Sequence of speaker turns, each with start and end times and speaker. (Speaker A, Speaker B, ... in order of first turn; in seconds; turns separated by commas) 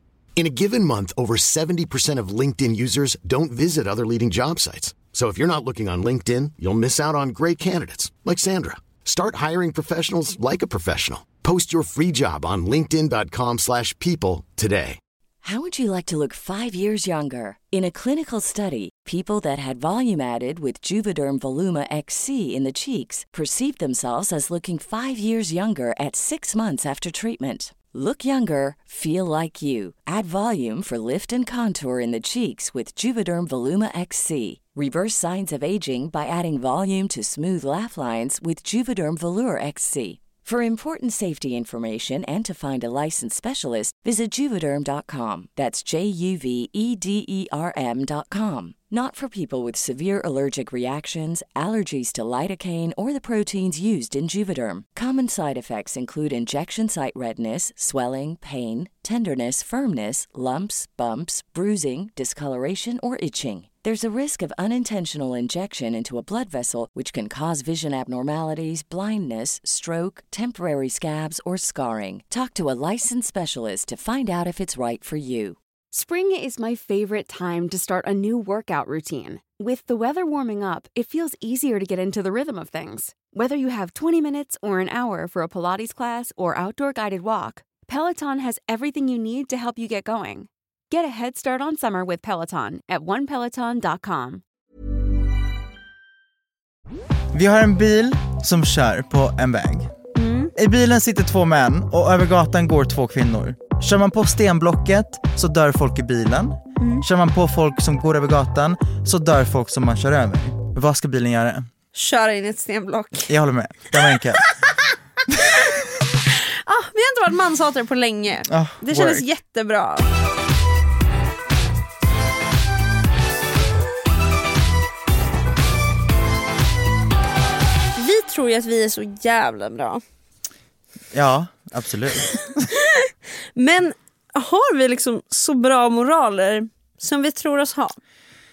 Speaker A: 0.4-15.0, Speaker B: 15.4-75.6, Speaker C: 75.9-94.4, Speaker D: 97.3-99.9, Speaker E: 100.1-100.5, Speaker D: 100.5-111.7, Speaker E: 106.8-107.0, Speaker E: 111.9-113.3, Speaker D: 113.3-114.4, Speaker E: 116.3-120.1, Speaker D: 118.5-119.2, Speaker E: 128.0-130.0, Speaker D: 131.1-132.7, Speaker E: 132.8-138.0